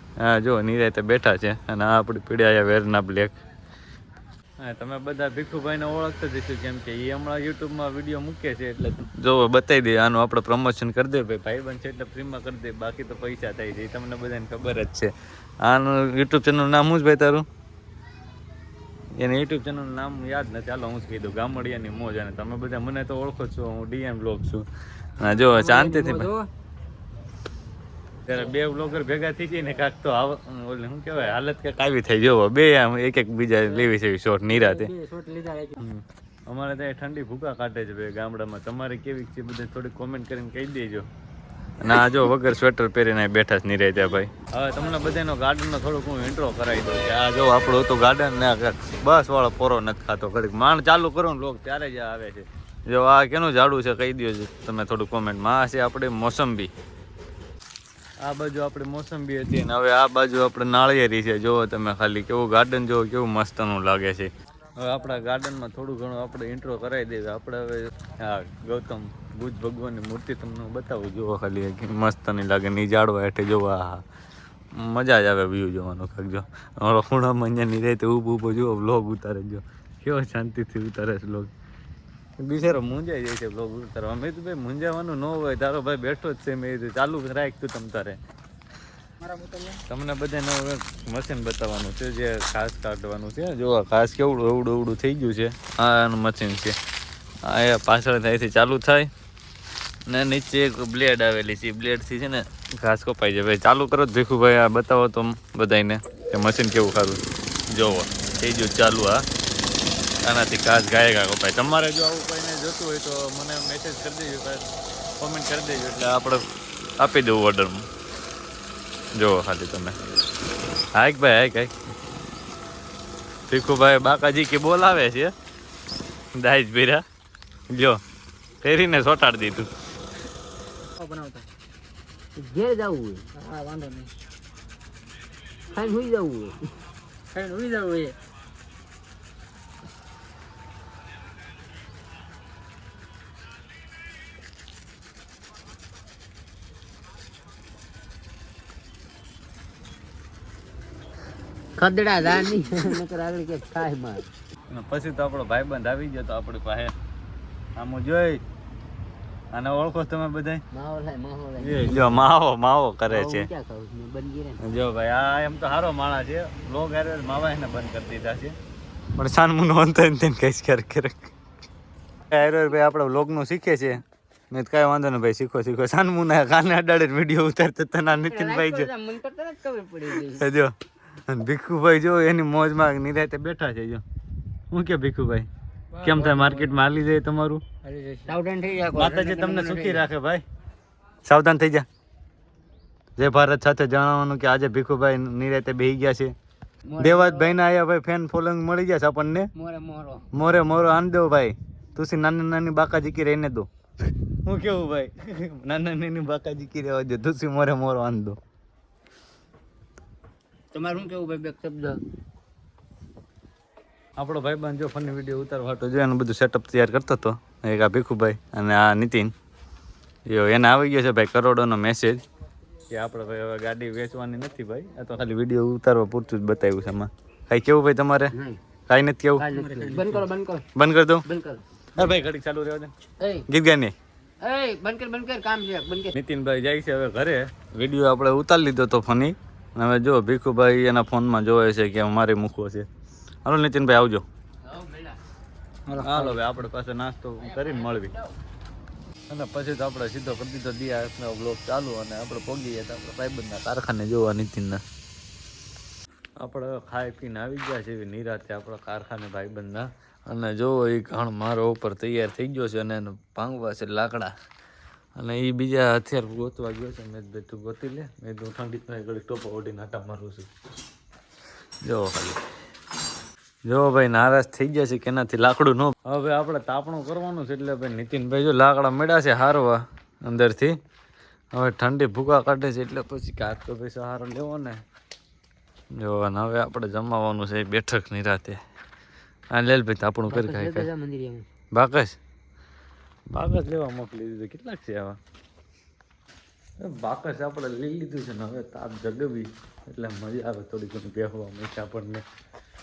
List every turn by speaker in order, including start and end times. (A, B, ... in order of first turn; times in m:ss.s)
0:00.2-0:03.3 A
0:04.6-0:15.1 A
0:15.6-0:17.4 A
0:19.2-0:24.6 A
0:25.2-0:26.3 A
0:25.2-0:26.5 B
0:28.2-0:34.9 A
0:34.5-0:35.8 B
0:35.8-0:41.1 A
0:41.8-0:56.7 A
0:58.2-1:14.0 A
1:14.7-1:21.5 A
1:22.4-1:28.2 A
1:29.2-1:29.8 B
1:29.9-1:36.8 A
1:37.4-1:39.1 A
1:40.1-1:49.2 A
1:50.2-1:54.6 A
1:55.2-1:56.4 A
1:57.0-1:57.9 A
1:59.1-2:00.0 A
2:00.9-2:01.7 A
2:03.5-2:05.3 A
2:06.4-2:07.0 A
2:07.7-2:08.0 A
2:08.6-2:09.7 A
2:11.0-2:11.4 B
2:12.4-2:13.3 C
2:13.3-2:14.1 B
2:15.7-2:16.7 C
2:17.3-2:18.2 B
2:31.8-2:34.3 C
2:34.7-2:36.9 A
2:37.8-2:38.4 A
2:39.5-2:40.6 A
2:40.7-2:42.3 C
2:41.6-2:43.5 A
2:43.1-2:44.6 C
2:44.6-2:48.6 A
2:49.2-2:51.3 A
2:52.3-2:58.9 A
2:58.2-3:00.5 C
3:00.1-3:00.7 A
3:01.3-3:04.0 A
3:04.7-3:05.5 A
3:05.9-3:06.8 B
3:06.0-3:07.6 A
3:07.8-3:08.3 B
3:08.2-3:10.1 C
3:08.9-3:10.4 A
3:11.2-3:11.8 A
3:13.2-3:16.3 A
3:16.9-3:17.6 C
3:17.0-3:19.5 A
3:19.6-3:20.2 C
3:20.3-3:28.4 A
3:30.7-3:32.0 C
3:34.2-3:39.3 A
3:40.3-3:42.2 A
3:42.9-3:48.3 A
3:48.3-3:48.6 C
3:48.9-3:49.4 A
3:49.4-3:50.6 C
3:49.5-3:50.2 B
3:50.7-3:51.2 A
3:51.2-3:52.1 C
3:51.9-3:52.9 A
3:53.2-3:53.4 C
3:53.5-3:53.9 A
3:54.4-3:56.1 C
3:56.1-4:02.9 A
4:03.4-4:04.2 A
4:04.7-4:05.1 C
4:05.9-4:06.4 B
4:05.9-4:08.2 A
4:09.3-4:14.8 A
4:16.4-4:24.3 A
4:25.2-4:30.5 A
4:31.8-4:32.4 A
4:33.6-4:40.8 A
4:41.5-4:44.8 A
4:46.0-4:48.6 A
4:49.5-4:50.9 A
4:50.3-4:51.4 C
4:51.7-4:52.2 A
4:53.3-4:55.2 A
4:56.8-5:02.2 A